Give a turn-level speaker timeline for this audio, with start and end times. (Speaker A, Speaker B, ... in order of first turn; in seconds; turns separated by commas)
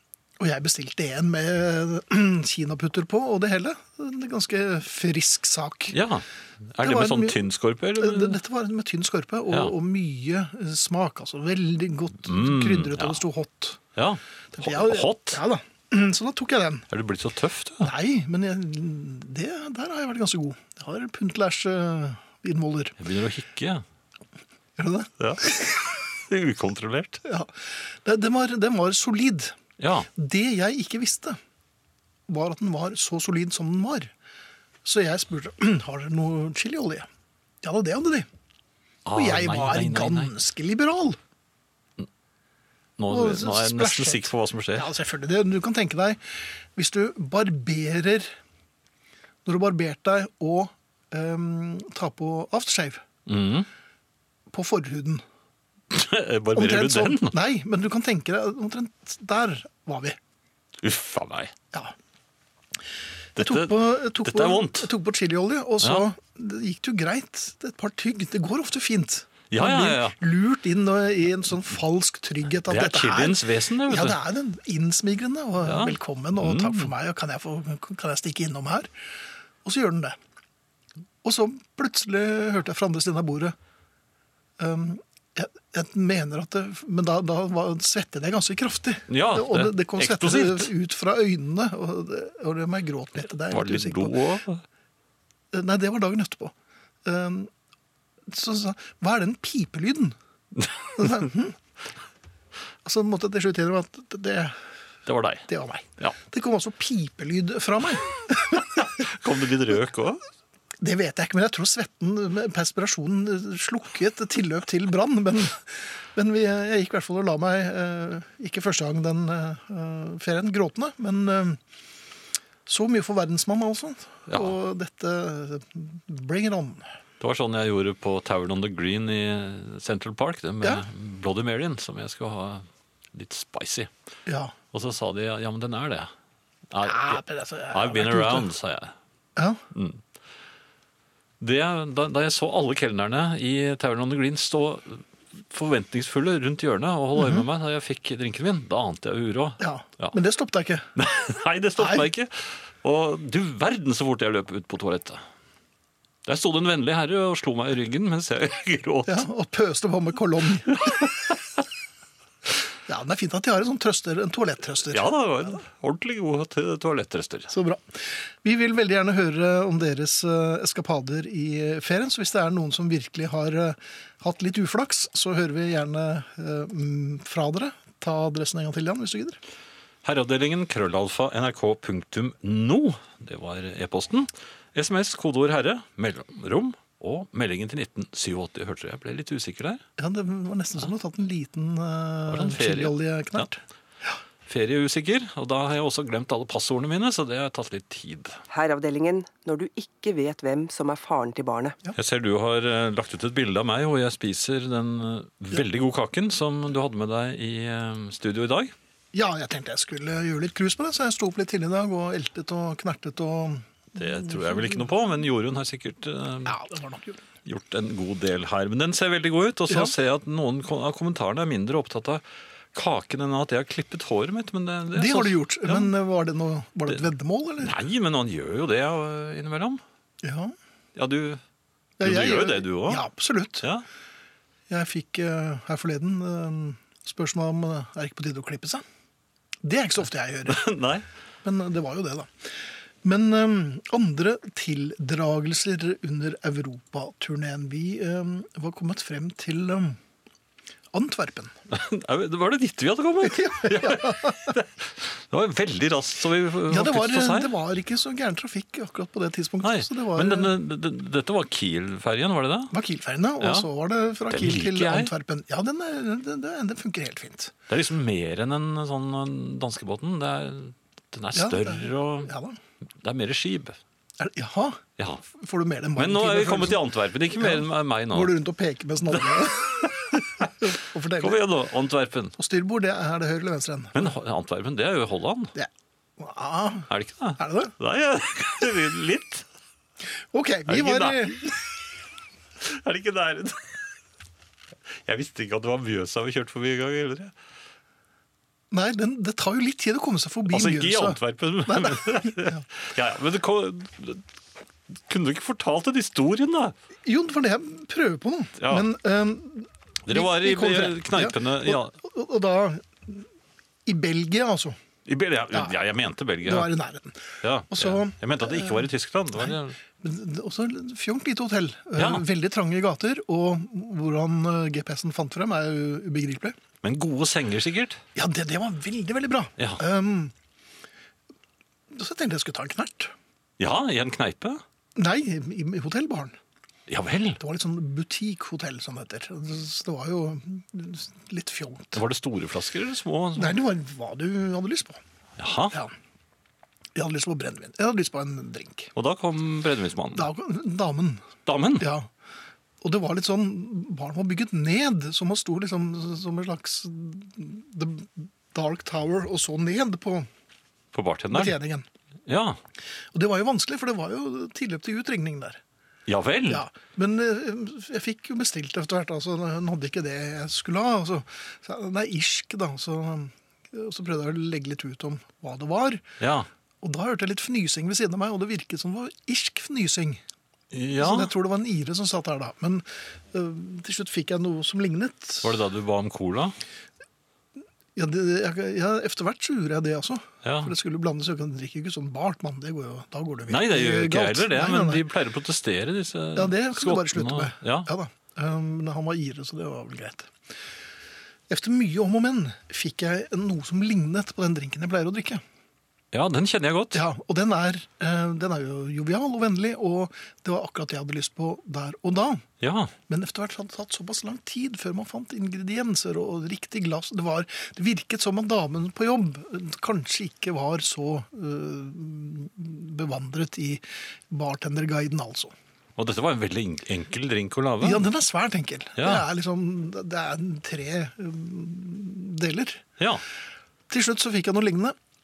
Speaker A: 0.4-6.0, Speaker B: 5.9-8.4, Speaker A: 6.8-7.5, Speaker A: 8.0-13.8, Speaker B: 12.2-13.2, Speaker B: 13.9-15.4, Speaker A: 14.5-16.9, Speaker B: 16.9-17.9, Speaker A: 17.8-22.9, Speaker B: 23.0-23.8, Speaker A: 24.8-25.9, Speaker B: 25.2-27.2, Speaker A: 27.2-29.5, Speaker B: 29.8-30.1, Speaker A: 30.1-31.4, Speaker A: 32.3-34.1, Speaker A: 34.8-37.1, Speaker A: 37.6-38.3, Speaker B: 39.0-40.3, Speaker A: 39.1-41.2, Speaker B: 43.0-44.9, Speaker A: 43.1-48.3, Speaker A: 49.4-53.0, Speaker B: 53.2-53.7, Speaker A: 54.5-55.2, Speaker B: 55.9-57.4, Speaker A: 56.5-60.2, Speaker B: 60.8-61.5, Speaker B: 63.4-64.9, Speaker A: 63.4-78.9, Speaker B: 69.5-70.2, Speaker B: 72.7-74.2, Speaker B: 75.6-76.9, Speaker A: 79.6-80.2, Speaker A: 81.2-83.5, Speaker A: 84.6-94.2, Speaker B: 89.1-90.7, Speaker B: 93.2-94.6, Speaker A: 95.5-96.5, Speaker A: 97.0-97.5, Speaker A: 98.3-100.1, Speaker B: 100.6-101.3, Speaker A: 101.0-101.6, Speaker A: 102.8-104.6, Speaker B: 105.0-105.5, Speaker A: 105.5-108.8, Speaker B: 108.5-110.2, Speaker A: 110.8-121.6, Speaker A: 122.7-126.8, Speaker B: 124.3-124.5, Speaker B: 127.2-133.9, Speaker A: 134.3-134.5, Speaker B: 134.7-136.1, Speaker B: 136.7-138.9, Speaker A: 136.8-138.5, Speaker A: 139.3-139.6, Speaker B: 139.7-140.0, Speaker B: 141.4-150.1, Speaker A: 149.6-150.8, Speaker B: 150.9-155.2, Speaker A: 151.8-152.1, Speaker B: 156.2-159.3, Speaker A: 159.1-161.1, Speaker A: 162.9-165.2, Speaker B: 164.9-167.5, Speaker A: 167.5-179.4, Speaker B: 180.0-189.8, Speaker A: 190.0-193.6, Speaker B: 192.3-193.5, Speaker B: 194.4-198.4, Speaker C: 198.5-201.8, Speaker B: 201.9-208.7, Speaker A: 209.1-214.9, Speaker B: 213.9-216.6, Speaker A: 216.4-217.2, Speaker B: 217.4-222.2, Speaker A: 219.7-219.9, Speaker B: 222.7-225.9, Speaker A: 224.9-227.8, Speaker B: 227.6-229.8, Speaker A: 230.2-230.5, Speaker B: 230.9-231.4, Speaker A: 232.0-233.7, Speaker B: 232.0-233.1, Speaker B: 233.6-233.8, Speaker A: 234.7-238.8, Speaker A: 239.6-240.7, Speaker B: 240.5-241.1, Speaker A: 241.4-250.0, Speaker A: 250.9-251.5, Speaker B: 251.7-257.5, Speaker A: 253.2-254.6, Speaker A: 256.7-260.5, Speaker B: 259.6-262.7, Speaker A: 262.7-267.5, Speaker B: 263.4-263.7, Speaker B: 264.3-265.1, Speaker B: 267.7-272.3, Speaker A: 271.3-272.6, Speaker B: 272.9-273.8, Speaker A: 274.2-281.4, Speaker B: 275.0-275.2, Speaker B: 275.9-278.4, Speaker B: 279.1-282.3, Speaker A: 282.4-284.1, Speaker B: 283.9-285.5, Speaker A: 285.5-287.7, Speaker B: 286.9-289.4, Speaker A: 290.3-291.6, Speaker B: 290.7-291.6, Speaker B: 292.6-293.9, Speaker B: 294.9-297.3, Speaker A: 298.7-302.6, Speaker B: 300.5-304.2, Speaker B: 304.9-306.7, Speaker A: 307.0-313.2, Speaker B: 308.6-308.9, Speaker B: 310.1-311.9, Speaker A: 313.9-314.8, Speaker B: 315.0-316.7, Speaker A: 316.4-326.6, Speaker B: 317.4-319.8, Speaker B: 321.9-322.2, Speaker B: 326.8-328.0, Speaker A: 328.1-330.3, Speaker A: 331.9-333.1, Speaker B: 333.6-334.6, Speaker A: 334.9-336.4, Speaker B: 336.9-337.4, Speaker A: 337.4-342.0, Speaker B: 341.9-343.5, Speaker A: 343.4-345.0, Speaker B: 345.4-345.7, Speaker A: 346.9-348.9, Speaker B: 348.9-350.3, Speaker A: 350.1-351.3, Speaker B: 351.4-351.9, Speaker A: 351.8-352.1, Speaker A: 352.8-360.3, Speaker B: 360.9-361.6, Speaker A: 361.3-361.9, Speaker B: 362.2-362.6, Speaker A: 363.1-365.6, Speaker B: 366.1-366.6, Speaker A: 366.5-376.0, Speaker B: 376.2-376.5, Speaker A: 376.8-380.2, Speaker B: 380.7-381.3, Speaker A: 381.0-385.5, Speaker B: 385.4-386.6, Speaker A: 387.9-395.0, Speaker B: 390.4-390.7, Speaker B: 393.5-397.9, Speaker A: 396.3-400.3, Speaker A: 401.5-405.4, Speaker B: 406.1-407.0, Speaker A: 406.9-412.4, Speaker B: 412.6-412.9, Speaker A: 413.1-425.5, Speaker B: 426.0-428.1, Speaker A: 427.8-432.8, Speaker B: 429.0-429.2, Speaker B: 433.0-433.2, Speaker A: 433.9-434.9